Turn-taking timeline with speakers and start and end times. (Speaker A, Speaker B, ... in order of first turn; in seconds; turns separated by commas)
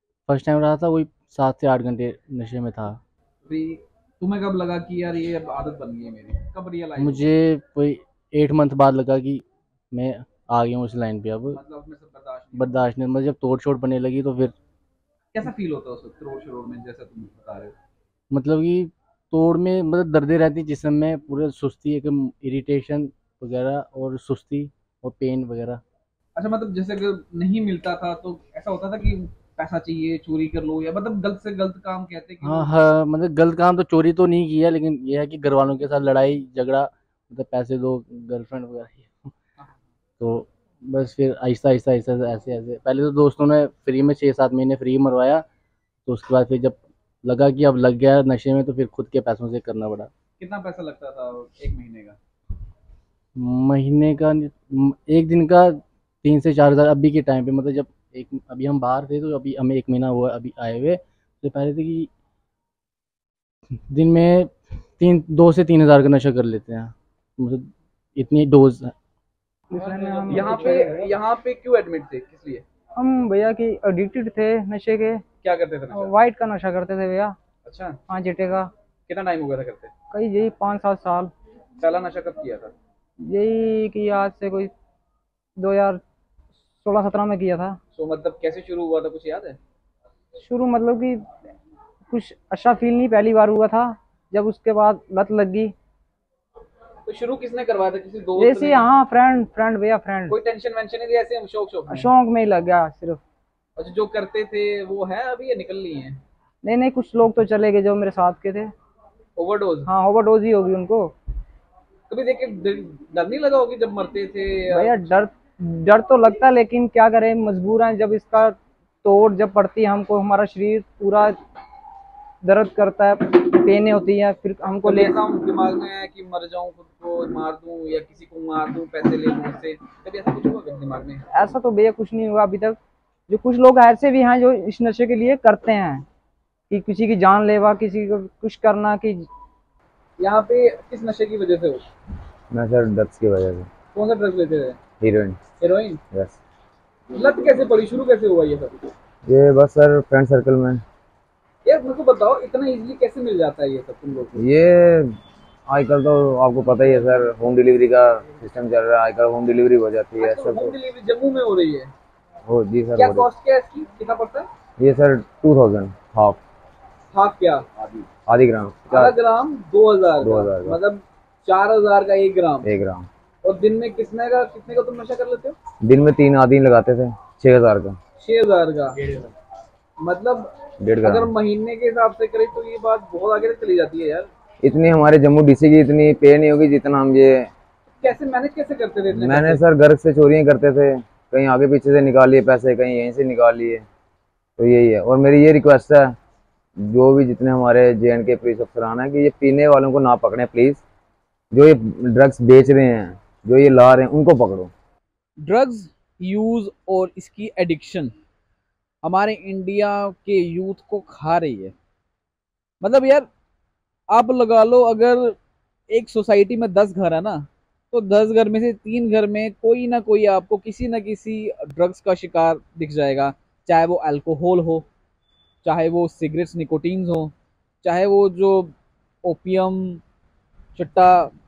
Speaker A: 0.3-3.0, Speaker B: 3.4-7.2, Speaker A: 7.0-11.6, Speaker B: 11.5-12.8, Speaker A: 12.5-14.5, Speaker B: 15.3-17.7, Speaker A: 18.3-25.8, Speaker B: 26.4-32.7, Speaker A: 32.4-39.3, Speaker B: 39.6-39.8, Speaker A: 40.2-45.4, Speaker A: 46.0-50.1, Speaker B: 50.4-52.2, Speaker A: 53.4-62.1, Speaker A: 63.9-68.9, Speaker C: 69.7-71.1, Speaker B: 69.8-72.6, Speaker C: 73.0-75.2, Speaker B: 75.4-76.2, Speaker C: 75.9-77.3, Speaker B: 77.6-78.0, Speaker C: 78.1-78.7, Speaker B: 79.1-79.9, Speaker C: 80.1-81.3, Speaker B: 81.8-82.7, Speaker C: 83.2-84.7, Speaker C: 85.6-86.0, Speaker C: 86.8-87.8, Speaker B: 87.9-89.6, Speaker C: 90.4-91.2, Speaker C: 92.1-95.7, Speaker B: 97.0-98.9, Speaker C: 98.4-100.4, Speaker B: 100.3-102.1, Speaker C: 101.9-103.2, Speaker B: 103.8-106.2, Speaker C: 106.6-108.7, Speaker B: 109.3-109.9, Speaker C: 109.8-111.1, Speaker B: 112.1-114.9, Speaker C: 114.7-121.3, Speaker C: 122.4-125.2, Speaker B: 124.8-131.2, Speaker C: 131.3-132.8, Speaker C: 133.3-136.0, Speaker C: 136.7-139.2, Speaker B: 140.2-141.8, Speaker D: 142.5-143.7, Speaker B: 143.9-144.8, Speaker D: 145.0-145.4, Speaker B: 145.6-146.0, Speaker D: 146.1-146.4, Speaker B: 147.1-148.8, Speaker D: 149.3-150.8, Speaker B: 151.6-154.4, Speaker D: 154.4-155.1, Speaker D: 155.7-160.7, Speaker B: 160.2-161.9, Speaker D: 162.5-163.3, Speaker B: 162.9-164.5, Speaker D: 164.8-166.4, Speaker B: 167.1-168.0, Speaker D: 168.3-169.1, Speaker B: 168.9-172.7, Speaker D: 170.2-170.8, Speaker D: 172.6-173.1, Speaker B: 173.4-175.6, Speaker D: 175.8-178.0, Speaker B: 178.2-179.2, Speaker B: 180.0-184.3, Speaker D: 180.8-181.3, Speaker D: 184.6-187.5, Speaker B: 188.0-189.6, Speaker D: 189.1-193.8, Speaker D: 194.6-196.1, Speaker D: 196.9-200.8, Speaker D: 201.5-204.7, Speaker B: 205.4-208.1, Speaker B: 209.0-211.7, Speaker B: 212.8-213.3, Speaker B: 214.1-215.3, Speaker B: 215.9-224.8, Speaker B: 225.6-230.0, Speaker B: 230.8-231.3